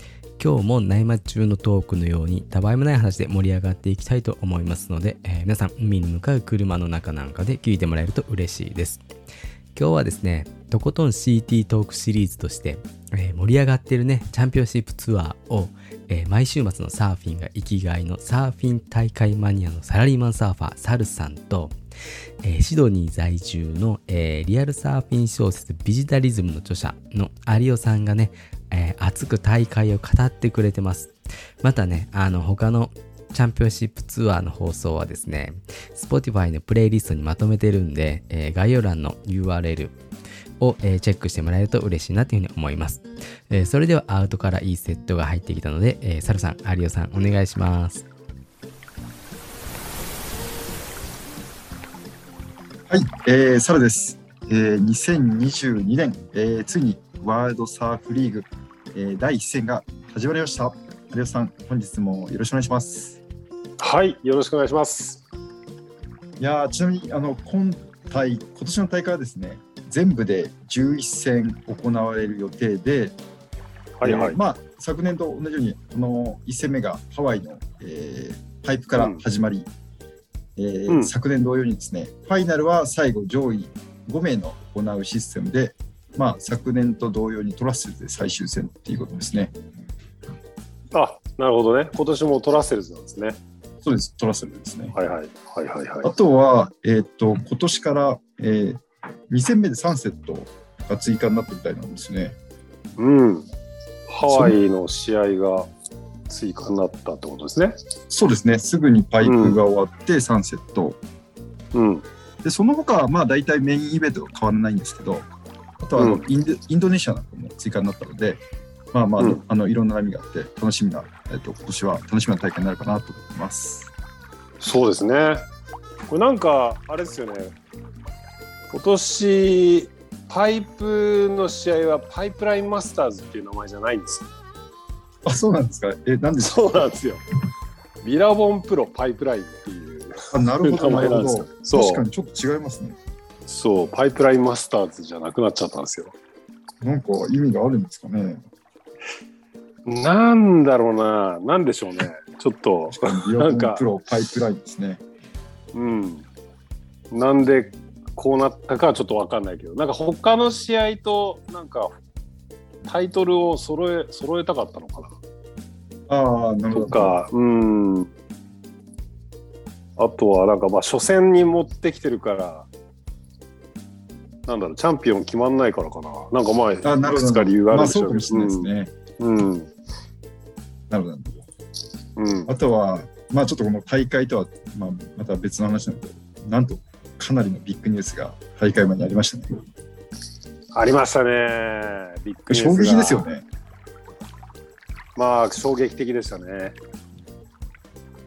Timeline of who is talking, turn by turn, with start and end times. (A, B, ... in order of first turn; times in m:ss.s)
0:00.4-0:09.0 A
0:09.8-0:21.8 A
0:22.4-0:31.1 A
0:31.6-0:39.9 A
0:40.6-0:48.0 A
0:52.9-1:03.2 B
1:03.8-1:05.2 C
1:06.4-1:13.2 B
1:14.0-1:14.4 C
1:14.0-1:19.7 B
1:19.0-1:19.2 C
1:20.6-1:29.5 B
1:30.9-1:33.4 C
1:33.8-1:35.0 B
1:34.9-1:36.1 C
1:36.0-1:42.4 B
1:43.0-1:43.5 C
1:44.1-1:45.7 C
1:44.2-1:44.6 B
1:46.3-1:47.8 C
1:48.1-1:51.0 B
1:49.2-1:49.6 C
1:51.7-1:52.0 C
1:52.4-1:55.3 B
1:55.8-2:03.9 B
1:56.0-1:56.2 C
2:04.6-2:05.5 C
2:06.1-2:07.5 C
2:08.7-2:14.3 C
2:15.2-2:16.9 B
2:16.4-2:17.2 C
2:18.0-2:22.0 C
2:20.3-2:23.0 B
2:23.5-2:26.1 C
2:26.8-2:28.5 B
2:29.9-2:33.9 C
2:32.9-2:35.0 B
2:35.7-2:36.3 C
2:37.1-2:42.0 C
2:42.8-2:45.1 C
2:46.1-2:47.2 B
2:46.7-2:48.1 C
2:50.0-2:52.7 C
2:54.5-2:59.7 C
2:56.8-2:58.9 B
3:00.9-3:01.4 B
3:02.2-3:02.5 C
3:02.5-3:09.6 B
3:10.7-3:13.3 C
3:12.5-3:13.4 B
3:15.2-3:16.8 C